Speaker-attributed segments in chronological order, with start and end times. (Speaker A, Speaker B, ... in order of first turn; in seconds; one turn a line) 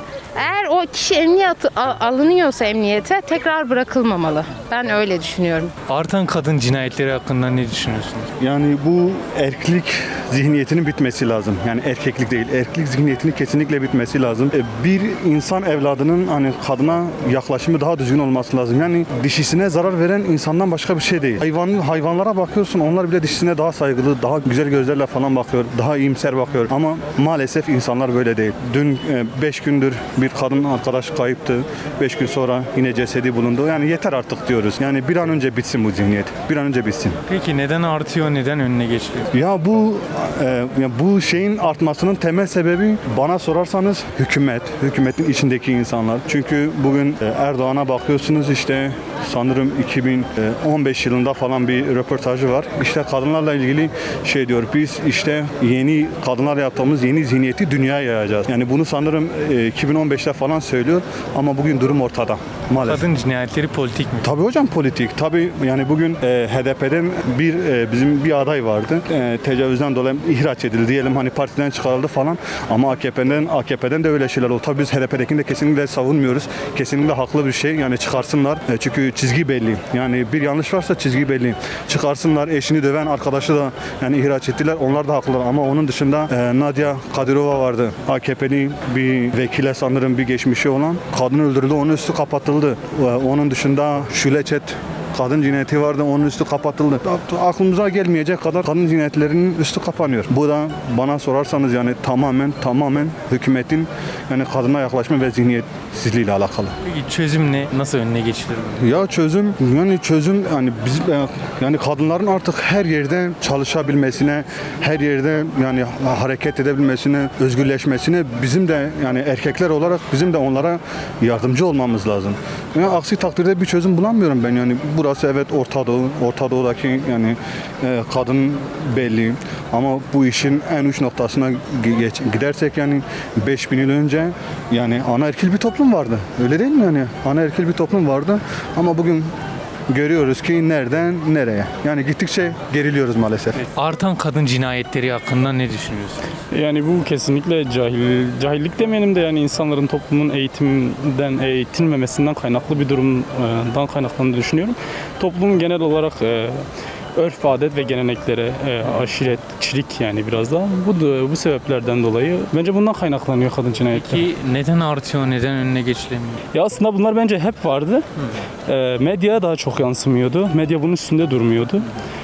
Speaker A: 0.4-5.7
Speaker B: 5.9-8.3
Speaker C: 8.4-37.2
Speaker B: 37.3-39.3
Speaker C: 39.3-63.0
Speaker B: 62.8-64.3
Speaker C: 64.2-106.7
Speaker B: 106.8-109.0
Speaker C: 108.8-139.3
Speaker C: 139.9-143.6
Speaker B: 143.6-146.2
Speaker D: 146.5-156.6
Speaker D: 157.2-164.2
Speaker B: 163.9-166.4
Speaker D: 166.5-168.1
Speaker D: 168.7-171.9